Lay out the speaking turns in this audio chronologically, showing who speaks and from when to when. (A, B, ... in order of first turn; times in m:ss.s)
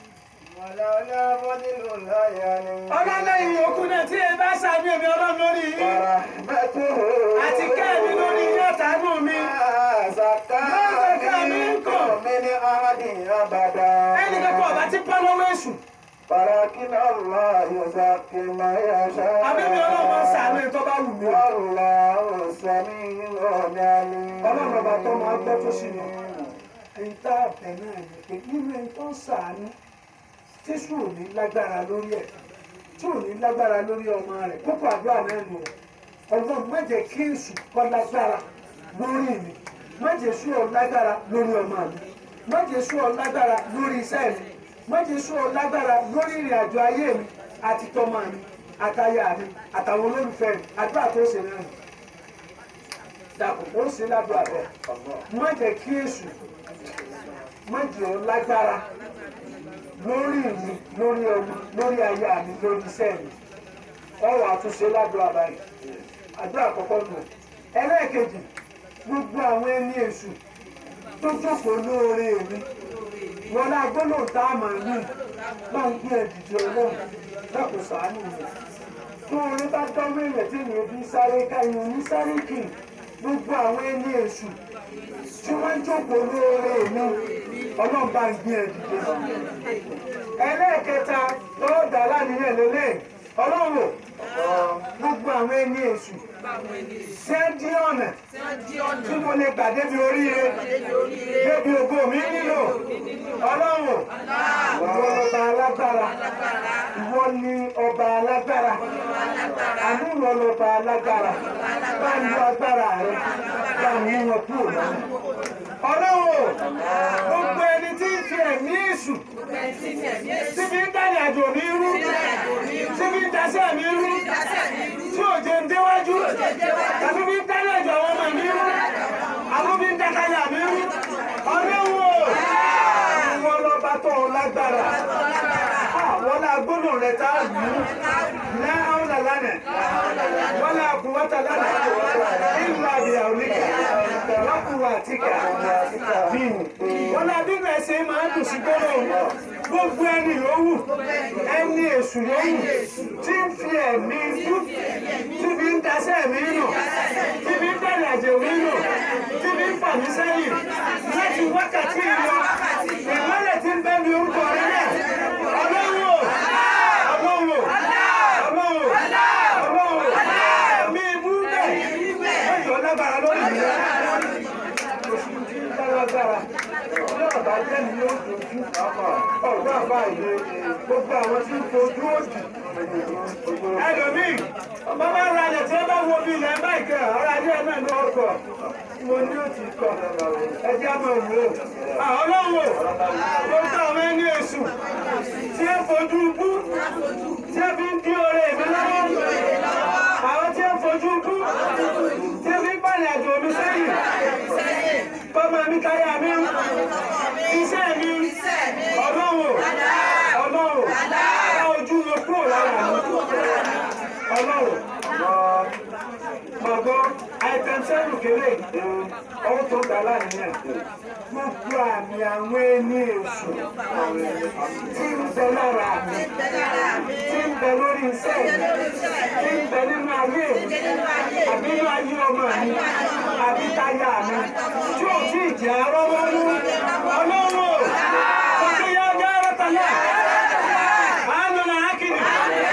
0:00.4-0:04.0 A
0:02.9-0:06.0 B
0:05.8-0:08.7 A
0:07.4-0:09.6 B
0:09.3-0:14.9 A
0:10.6-0:12.2 B
0:14.1-0:15.8 B
0:16.3-0:20.6 A
0:19.4-0:21.5 B
0:21.2-0:26.6 A
0:24.4-0:26.1 B
0:27.0-0:29.7 B
0:30.6-0:32.3 B
0:33.0-0:35.7 B
0:36.3-0:51.7 B
0:53.4-0:54.7 B
0:54.9-0:55.2 A
0:55.3-0:56.4 B
0:57.7-0:58.8 B
1:00.0-1:03.3 B
1:04.2-1:05.6 B
1:06.4-1:08.5 B
1:09.0-1:10.4 B
1:11.2-1:12.7 B
1:13.5-1:15.1 B
1:15.7-1:18.5 B
1:19.3-1:24.6 B
1:25.4-1:27.2 B
1:27.8-1:29.3 B
1:30.4-1:34.0 B
1:34.2-1:34.8 A
1:35.0-1:36.2 B
1:37.2-1:38.2 B
1:39.0-1:40.6 B
1:41.4-1:42.8 B
1:43.4-1:44.1 B
1:44.7-1:45.2 A
1:44.8-1:46.1 B
1:46.9-1:48.8 B
1:49.8-1:55.1 B
1:55.8-1:56.6 B
1:56.6-1:57.4 A
1:57.2-1:59.2 B
2:00.4-2:02.1 B
2:02.9-2:04.2 B
2:05.1-2:06.4 B
2:07.0-2:08.8 B
2:09.5-2:12.4 B
2:12.9-2:15.0 B
2:15.9-2:17.9 B
2:18.5-2:19.6 B
2:19.7-2:20.7 A
2:20.5-2:21.9 B
2:21.6-2:22.8 A
2:22.5-2:23.8 B
2:23.5-2:24.6 A
2:24.4-2:25.5 B
2:25.2-2:27.2 A
2:26.3-2:30.9 B
2:29.0-2:29.4 A
2:31.4-2:34.7 B
2:35.3-2:36.8 B
2:37.4-2:42.5 B
2:43.0-2:46.4 B
2:46.9-2:47.8 B
2:48.3-2:54.2 B
2:55.0-2:56.5 B
2:57.1-2:58.7 B
2:58.7-3:00.7 A
2:59.4-3:02.5 B
3:02.6-3:05.3 A
3:03.8-3:08.4 B
3:09.0-3:10.0 B
3:09.8-3:10.6 A
3:10.6-3:12.8 B
3:11.7-3:12.0 A
3:12.7-3:13.4 A
3:13.4-3:14.7 B
3:15.5-3:16.7 B
3:17.4-3:19.3 B
3:20.2-3:21.5 B
3:22.3-3:24.0 B
3:25.3-3:26.6 B
3:27.5-3:28.4 B
3:28.9-3:29.7 B
3:30.3-3:33.3 B
3:34.3-3:34.8 B
3:35.0-3:35.7 A
3:36.6-3:38.7 B
3:38.7-3:39.1 A
3:39.4-3:40.6 B
3:41.3-3:43.7 B
3:43.9-3:44.9 A
3:44.9-3:46.3 B
3:47.2-3:48.6 B
3:49.3-3:50.9 B
3:51.4-3:58.0 B
3:58.5-4:00.1 B
4:01.1-4:02.4 B